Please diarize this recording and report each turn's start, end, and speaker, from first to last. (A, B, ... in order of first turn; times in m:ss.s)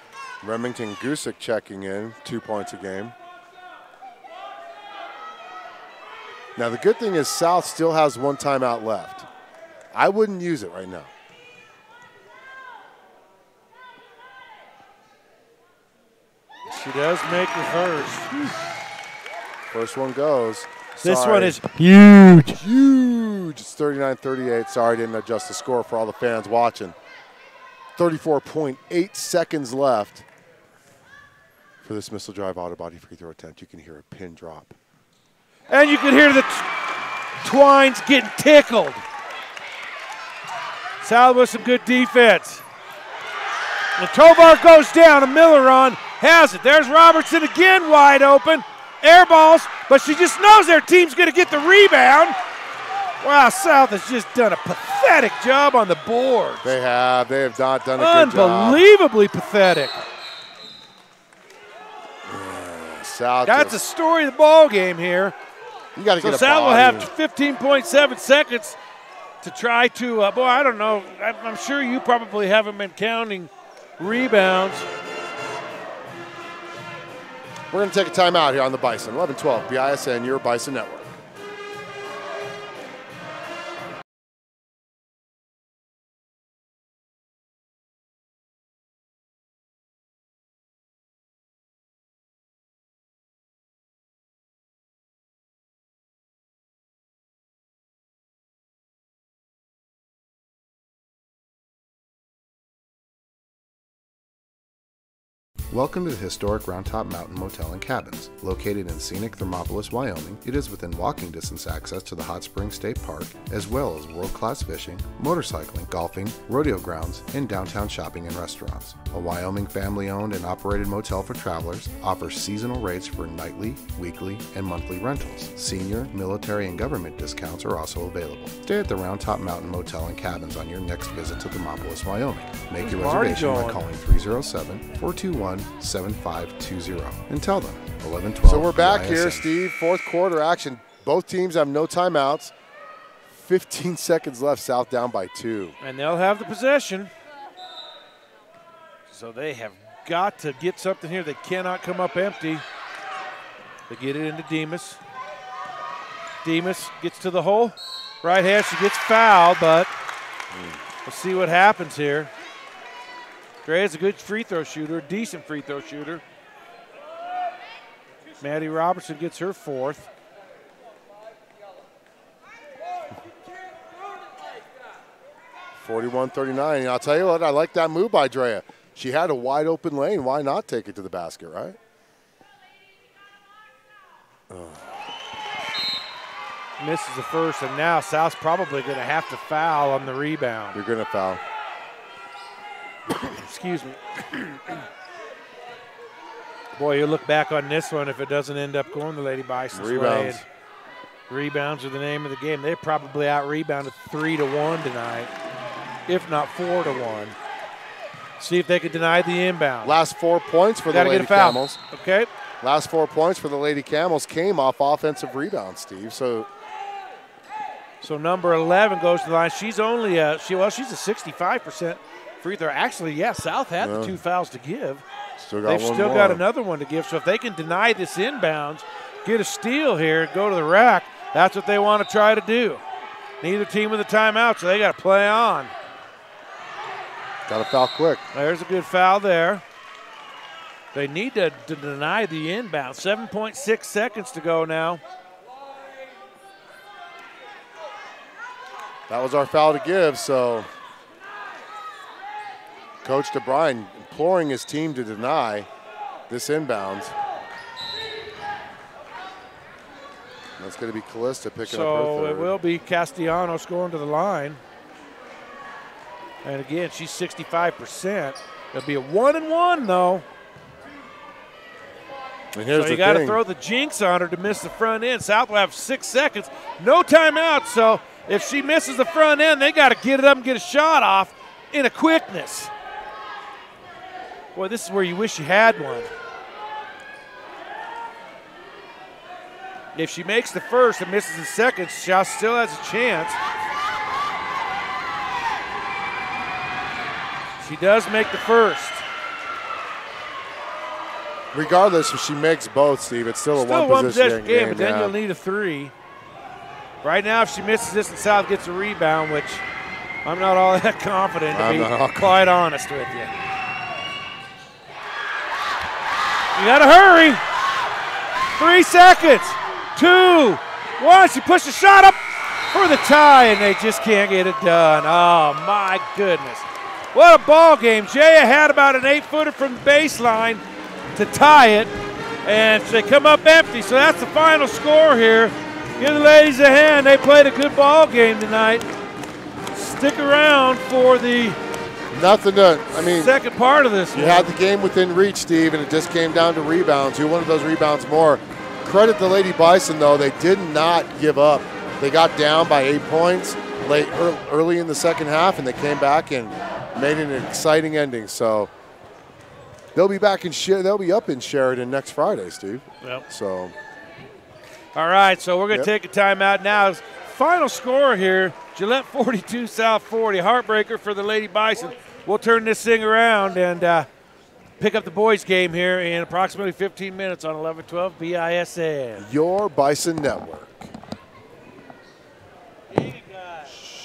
0:00.4-0:03.2 A
0:06.6-0:09.3 A
0:09.9-0:11.1 A
0:16.7-0:18.6 B
0:19.7-0:21.6 A
0:21.0-0:22.6 B
0:22.5-0:27.0 A
0:28.0-0:30.3 A
0:31.8-0:34.8 A
0:35.7-0:36.7 B
0:37.4-0:39.0 B
0:41.0-0:42.6 B
0:44.0-0:52.4 B
0:53.2-0:56.7 B
0:56.6-0:58.8 A
0:58.0-1:00.0 B
1:02.2-1:03.8 A
1:03.5-1:05.4 B
1:06.0-1:07.1 A
1:06.2-1:08.8 B
1:09.4-1:14.9 B
1:17.7-1:21.1 A
1:45.7-2:19.5 C
2:12.8-2:13.8 B
2:18.4-2:22.5 A
2:23.2-2:25.8 A
2:25.8-2:27.1 B
2:29.1-2:32.6 B
2:33.9-2:35.0 B
2:36.4-2:39.9 B
2:40.5-2:40.8 A
2:41.0-2:42.3 B
2:43.6-2:46.2 B
2:48.4-2:50.1 B
2:55.8-3:01.8 A
3:04.5-3:05.0 A
3:06.8-3:10.8 B
3:10.7-3:11.4 A
3:13.1-3:14.8 B
3:16.8-3:20.4 B
3:19.7-3:20.4 A
3:21.3-3:25.3 B
3:26.1-3:27.4 B
3:28.4-3:30.0 B
3:29.8-3:31.8 A
3:30.9-3:32.3 B
3:32.6-3:36.5 A
3:38.0-3:45.0 B
3:43.8-3:44.2 A
3:45.4-3:46.4 A
3:45.6-3:52.8 B
3:53.4-3:55.7 B
3:57.5-3:58.2 A
3:58.3-3:59.6 B
4:00.9-4:05.0 B
4:09.1-4:10.7 A
4:13.0-4:15.7 A
4:16.3-4:17.2 A
4:20.6-4:22.5 A
4:21.6-4:24.6 B
4:26.4-4:30.3 B
4:32.5-4:33.4 A
4:32.8-4:42.7 B
4:44.6-4:46.1 B
4:49.9-4:53.4 B
4:57.6-4:59.0 B
5:01.5-5:05.2 A
5:03.6-5:05.9 B
5:07.0-5:09.6 B
5:10.2-5:13.3 B
5:11.5-5:12.4 A
5:16.6-5:17.4 B
5:18.6-5:30.6 B
5:31.1-5:31.9 B
5:32.4-5:38.9 B
5:39.7-5:41.6 B
5:42.1-5:43.4 A
5:42.9-5:44.5 B
5:44.1-5:58.7 A
5:59.9-6:03.8 A
6:05.0-6:14.1 B
6:14.8-6:19.3 B
6:19.2-6:20.9 A
6:22.9-6:23.9 B